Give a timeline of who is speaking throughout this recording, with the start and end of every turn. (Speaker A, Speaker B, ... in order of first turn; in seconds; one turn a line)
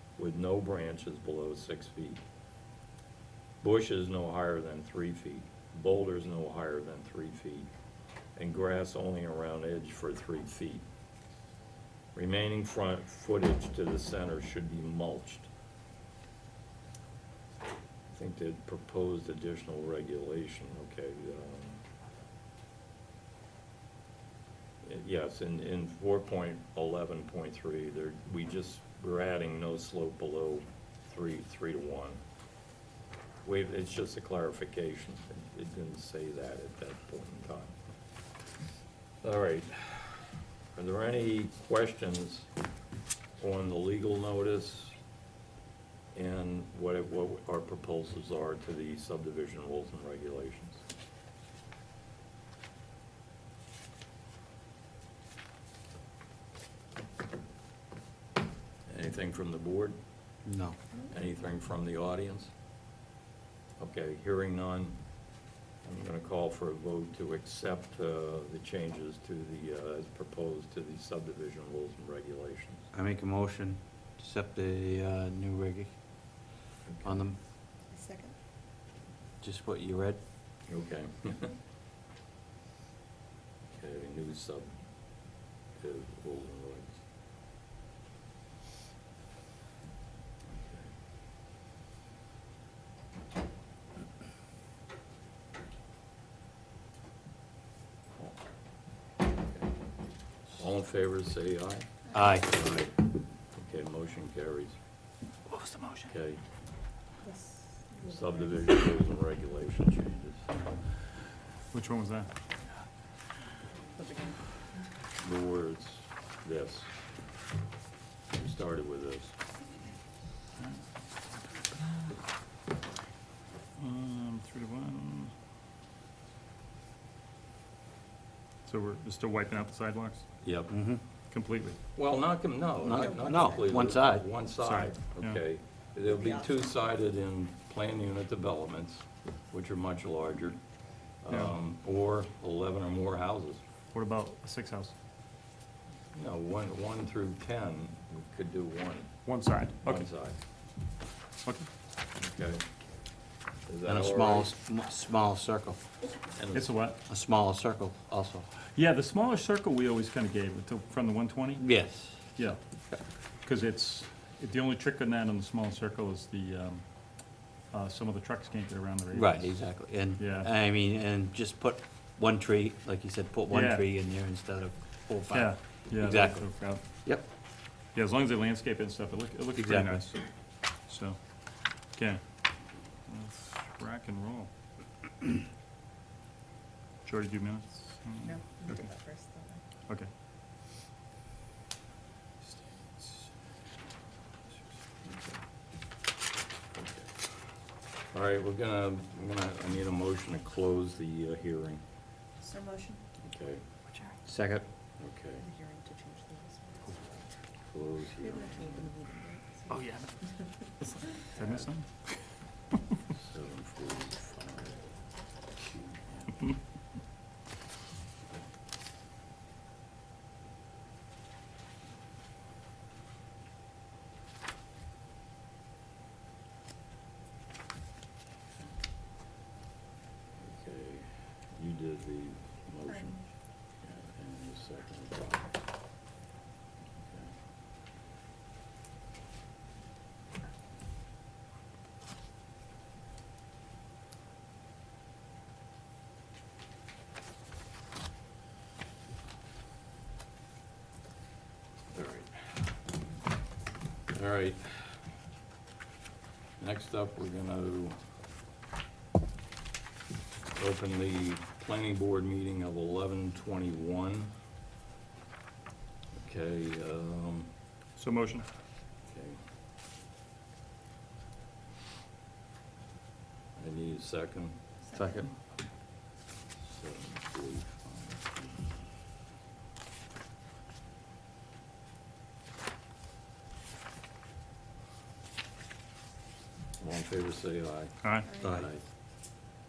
Speaker A: 0.2-2.2
Speaker A: 3.6-7.7
Speaker A: 8.4-10.8
Speaker A: 12.2-15.5
Speaker A: 18.1-21.8
Speaker A: 24.8-32.2
Speaker A: 33.5-37.8
Speaker A: 39.2-42.5
Speaker A: 43.4-45.0
Speaker A: 46.1-50.8
Speaker A: 58.9-60.0
Speaker B: 60.5-60.8
Speaker A: 61.1-62.5
Speaker A: 63.8-65.0
Speaker A: 65.8-72.9
Speaker B: 72.9-75.9
Speaker A: 76.8-77.2
Speaker B: 77.0-77.4
Speaker C: 77.9-78.3
Speaker B: 79.4-80.2
Speaker A: 80.7-81.5
Speaker A: 83.7-84.8
Speaker A: 85.7-87.0
Speaker A: 90.5-90.9
Speaker A: 100.5-101.9
Speaker B: 102.1-102.5
Speaker A: 102.5-102.9
Speaker A: 103.5-104.8
Speaker D: 105.5-106.1
Speaker A: 106.1-106.4
Speaker C: 107.2-108.2
Speaker A: 108.0-110.5
Speaker D: 111.7-112.3
Speaker C: 114.0-114.4
Speaker A: 115.2-116.9
Speaker A: 118.3-119.4
Speaker D: 123.8-125.3
Speaker D: 128.7-130.4
Speaker A: 130.4-130.7
Speaker B: 130.7-131.0
Speaker D: 131.3-131.8
Speaker A: 132.0-140.6
Speaker B: 132.8-134.3
Speaker C: 132.9-133.6
Speaker D: 134.6-135.4
Speaker C: 136.2-136.5
Speaker A: 141.2-143.6
Speaker D: 141.3-141.5
Speaker D: 143.9-144.9
Speaker A: 146.1-149.2
Speaker D: 149.3-150.1
Speaker A: 149.8-150.4
Speaker A: 152.2-152.7
Speaker A: 153.7-154.5
Speaker B: 153.9-155.9
Speaker A: 156.4-156.7
Speaker D: 156.5-157.0
Speaker B: 157.1-158.5
Speaker D: 158.7-161.8
Speaker B: 161.6-162.5
Speaker D: 162.3-170.5
Speaker B: 169.1-177.2
Speaker D: 173.5-173.9
Speaker D: 175.3-176.8
Speaker D: 177.9-182.2
Speaker B: 179.6-180.1
Speaker D: 183.1-184.5
Speaker D: 187.1-188.9
Speaker C: 188.3-189.6
Speaker A: 196.8-197.1
Speaker A: 198.1-201.8
Speaker C: 202.4-203.0
Speaker A: 203.2-203.6
Speaker B: 204.3-204.7
Speaker A: 205.0-205.5
Speaker C: 205.5-207.2
Speaker A: 207.7-208.9
Speaker C: 208.2-209.8
Speaker D: 209.7-210.5
Speaker D: 211.1-212.4
Speaker A: 213.1-214.9
Speaker A: 230.4-235.6
Speaker A: 237.0-237.4
Speaker A: 251.9-252.6
Speaker A: 254.1-255.0
Speaker A: 256.6-258.0
Speaker A: 260.5-264.3
Speaker A: 266.1-267.5
Speaker D: 268.0-268.5
Speaker A: 269.1-269.4
Speaker A: 273.6-274.6
Speaker B: 274.9-275.3
Speaker A: 276.6-278.8
Speaker A: 286.8-288.8
Speaker D: 288.0-288.3
Speaker B: 288.4-288.7